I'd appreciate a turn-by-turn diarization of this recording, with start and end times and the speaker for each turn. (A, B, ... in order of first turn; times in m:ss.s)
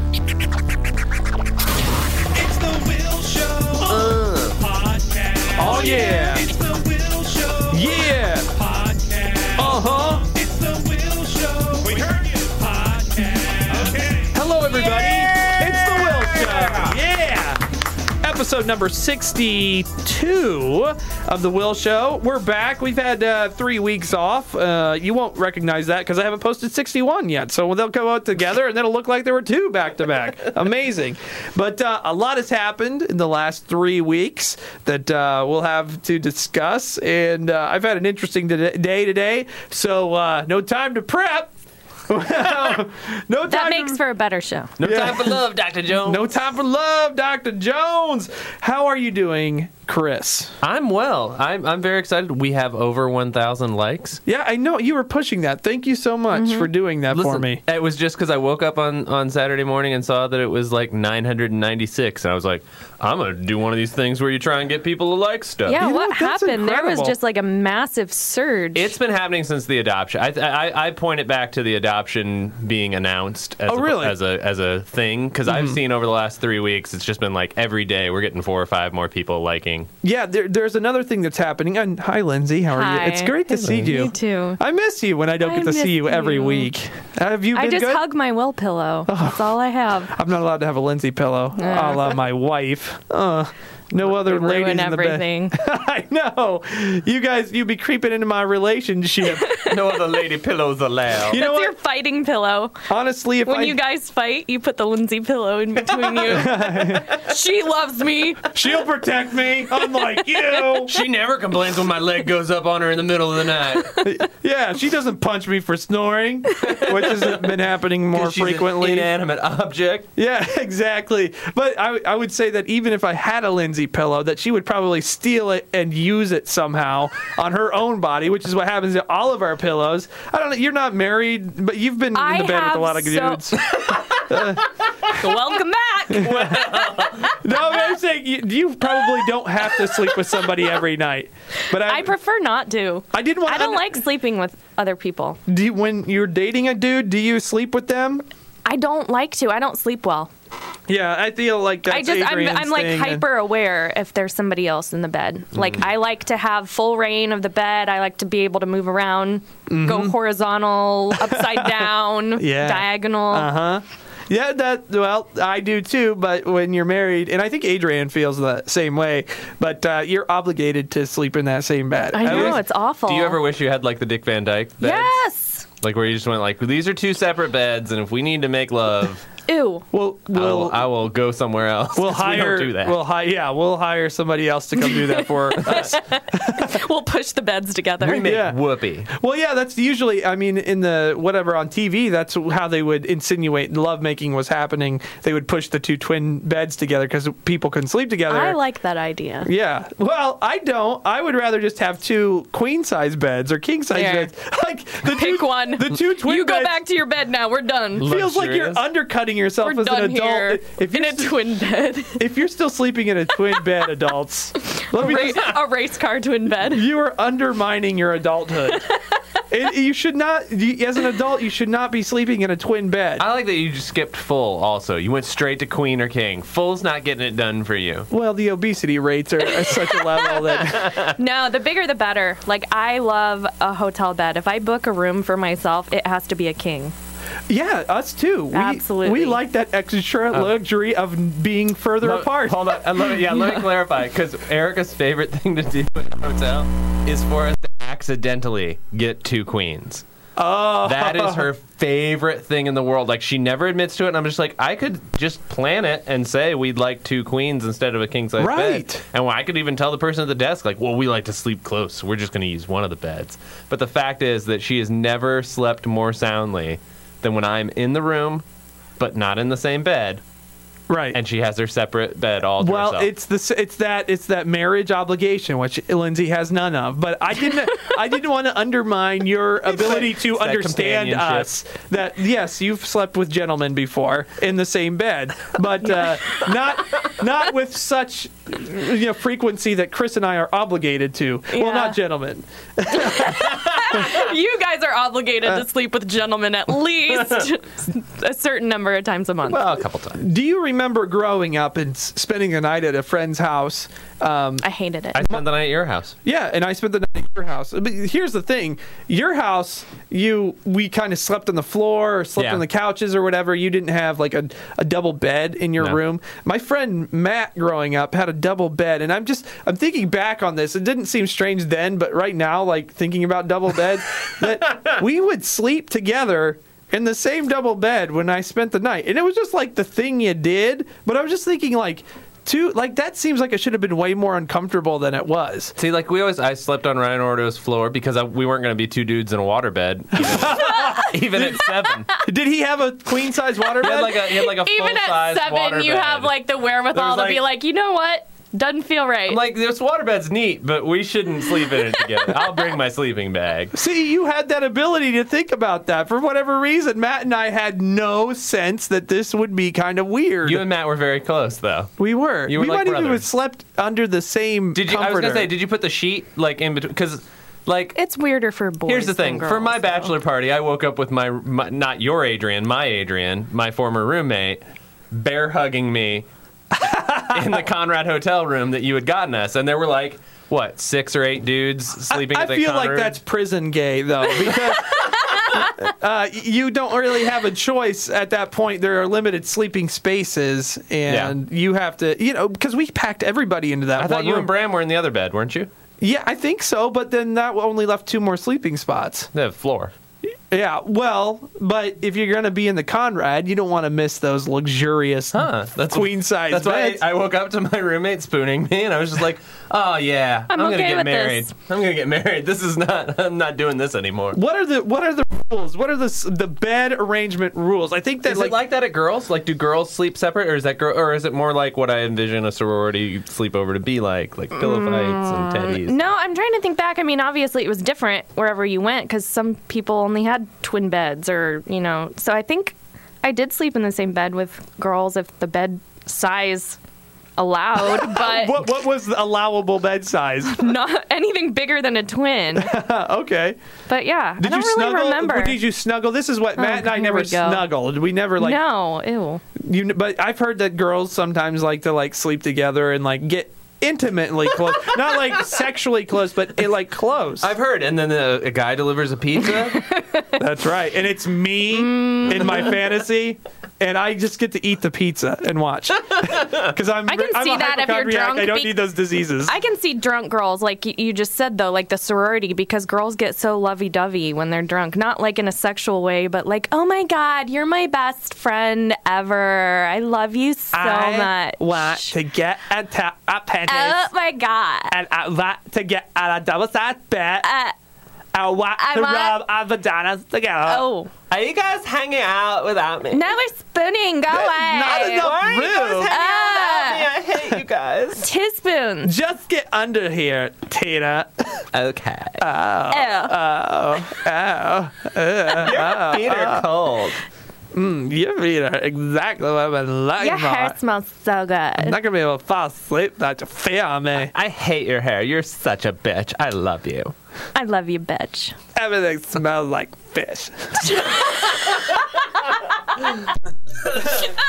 0:02.3-0:04.2 A
0:03.8-0:04.6 B
0:04.6-0:05.3 C
0:05.5-0:06.5 A
0:05.6-0:06.5 D
0:06.6-0:07.7 C
0:07.7-0:08.6 A
0:08.7-0:09.2 C
0:09.5-0:10.5 A
0:10.5-0:11.3 C
0:11.5-0:12.5 A
0:13.0-0:17.6 A
0:14.7-0:17.0 B
0:18.2-0:41.5 A
0:42.1-0:44.0 A
0:43.5-0:45.1 D
0:44.8-0:46.4 B
0:44.8-0:45.4 A
0:46.0-0:50.6 A
0:50.6-0:54.2 B
0:54.2-0:57.6 A
0:56.3-0:56.7 D
0:57.1-1:05.8 B
1:05.7-1:08.9 D
1:05.8-1:07.2 A
1:08.8-1:19.9 B
1:13.7-1:14.2 A
1:15.5-1:15.8 A
1:20.0-1:28.0 A
1:22.7-1:24.6 D
1:23.6-1:24.0 B
1:25.4-1:26.7 D
1:27.5-1:30.1 D
1:29.1-1:29.5 A
1:30.1-1:39.6 A
1:31.6-1:32.2 D
1:34.0-1:35.6 D
1:39.2-1:40.1 D
1:39.7-1:41.4 B
1:41.3-1:41.8 A
1:41.3-1:42.9 D
1:42.9-1:43.8 A
1:43.4-1:48.5 D
1:46.2-1:47.2 A
1:48.5-1:51.0 A
1:50.8-1:54.0 B
1:54.0-1:59.1 A
1:56.6-1:57.6 B
1:58.1-2:00.1 B
2:00.2-2:15.2 A
2:12.2-2:13.9 D
2:15.1-2:17.9 D
2:16.1-2:16.7 A
2:16.2-2:17.4 B
2:17.3-2:22.1 A
2:19.9-2:20.7 D
2:21.7-2:25.4 D
2:23.1-2:23.9 A
2:25.5-2:28.2 A
2:28.6-2:30.3 D
2:30.9-2:33.2 A
2:31.9-2:43.5 D
2:39.7-2:40.1 A
2:41.2-2:52.6 A
2:52.1-2:53.4 D
2:52.2-2:55.2 B
2:54.8-2:55.7 D
2:55.8-2:59.3 B
2:59.5-2:59.9 D
2:59.9-3:00.8 A
3:00.3-3:03.0 B
3:02.0-3:06.8 A
3:04.8-3:08.3 D
3:08.0-3:09.1 B
3:08.2-3:18.6 A
3:18.3-3:19.5 D
3:19.4-3:26.8 A
3:23.9-3:24.3 D
3:25.0-3:28.1 D
3:28.0-3:28.8 B
3:28.0-3:31.5 A
3:29.6-3:32.2 D
3:32.2-3:35.5 A
3:34.8-3:36.9 D
3:35.2-3:35.5 B
3:36.6-3:38.9 A
3:38.7-3:39.2 D
3:39.5-3:43.3 A
3:43.2-3:48.1 B
3:48.1-3:51.1 A
3:49.6-3:50.0 D
3:50.7-3:51.2 B
3:51.1-3:56.9 D
3:57.5-4:02.8 A
3:58.5-3:59.4 D
4:02.0-4:10.0 B
4:03.3-4:03.6 D
4:10.4-4:11.5 A
4:10.8-4:28.4 B
4:18.4-4:19.0 A
4:29.0-4:30.2 B
4:30.9-4:31.2 A
4:31.1-4:33.1 B
4:32.6-4:54.1 A
4:39.6-4:41.5 B
4:46.0-4:46.4 D
4:51.5-4:52.0 D
4:52.9-4:59.7 D
4:57.2-4:57.5 B
4:59.5-5:00.2 B
5:00.2-5:04.7 A
5:04.6-5:05.3 D
5:05.1-5:06.2 B
5:06.2-5:35.8 A
5:12.4-5:12.6 B
5:35.8-5:42.1 B
5:40.2-5:41.6 A
5:41.6-5:42.0 D
5:42.2-5:44.3 A
5:43.8-5:46.3 B
5:44.0-5:49.4 D
5:46.9-5:47.4 B
5:49.3-5:53.7 B
5:53.7-6:00.6 A
6:00.4-6:01.9 B
6:02.0-6:05.5 A
6:02.5-6:03.3 B
6:04.7-6:08.0 B
6:08.0-6:10.1 D
6:08.9-6:16.3 B
6:16.8-6:17.6 A
6:16.9-6:23.2 B
6:22.1-6:34.5 A
6:25.1-6:25.6 D
6:31.1-6:31.4 B
6:34.0-6:35.7 B
6:36.0-6:39.3 A
6:39.3-6:39.9 B
6:40.5-6:47.1 A
6:45.3-6:54.4 B
6:50.5-6:51.5 D
6:54.3-6:58.6 A
6:58.2-7:06.0 B
7:04.6-7:16.8 D
7:17.4-7:18.6 D
7:17.8-7:20.8 A
7:20.5-7:22.8 D
7:22.5-7:23.6 A
7:23.9-7:25.6 D
7:24.4-7:28.6 A
7:26.6-7:27.7 D
7:28.4-7:29.4 D
7:29.6-7:37.5 A
7:37.4-7:39.8 B
7:39.5-7:40.4 D
7:40.4-7:49.5 A
7:41.7-7:42.8 D
7:46.2-7:46.7 B
7:47.1-7:48.9 D
7:49.4-8:02.1 D
8:00.7-8:04.1 A
8:03.7-8:05.0 D
8:04.9-8:07.5 A
8:07.4-8:07.8 D
8:08.3-8:10.9 A
8:08.8-8:09.4 D
8:10.7-8:11.1 D
8:11.3-8:13.2 B
8:13.1-8:15.4 D
8:14.3-8:16.1 A
8:14.9-8:18.3 B
8:16.1-8:17.1 D
8:18.2-8:19.1 D
8:19.0-8:21.7 A
8:21.7-8:22.4 B
8:22.4-8:26.7 A
8:22.9-8:23.4 D
8:25.5-8:27.2 B
8:27.7-8:30.8 A
8:30.2-8:32.0 D
8:31.8-8:34.3 A
8:34.2-8:37.1 B
8:37.6-8:38.6 D
8:38.8-8:41.3 A
8:40.8-8:41.9 D
8:43.8-8:44.3 B
8:43.8-8:44.3 A